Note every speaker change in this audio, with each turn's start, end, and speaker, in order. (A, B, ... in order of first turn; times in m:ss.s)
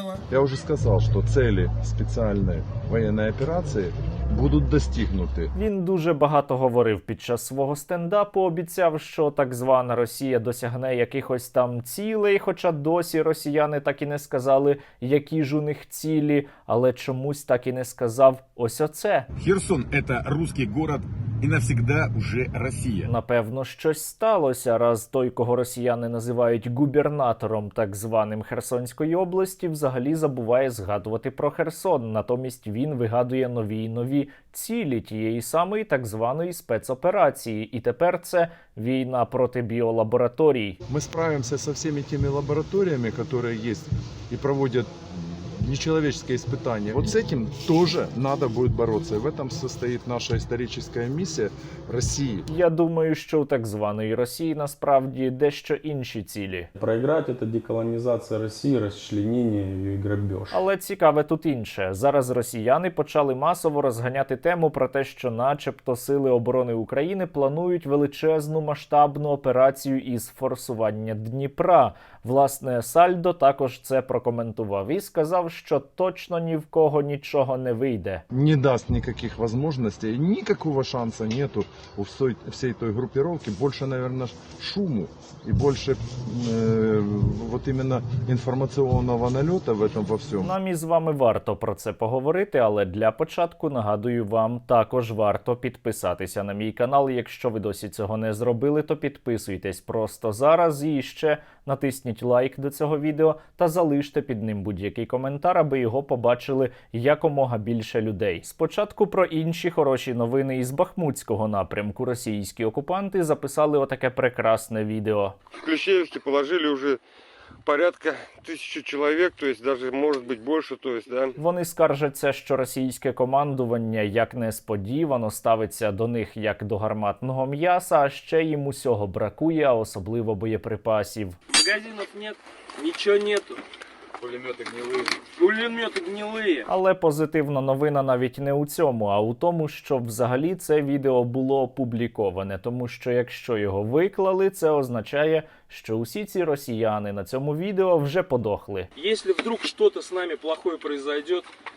0:00.3-0:05.5 A
0:05.6-0:19.3 B
0:19.4-0:23.1 C
0:23.1-0:40.8 B
0:40.9-0:52.5 A
0:52.5-0:56.7 B
0:56.8-1:00.6 D
1:00.5-1:18.2 B
1:18.3-1:30.5 A
1:30.4-1:55.4 B
1:55.6-1:57.0 E
1:57.6-2:01.4 E
2:01.4-2:11.4 B
2:11.5-2:13.6 F
2:14.3-2:16.7 F
2:16.7-2:28.9 B
2:29.0-2:31.5 F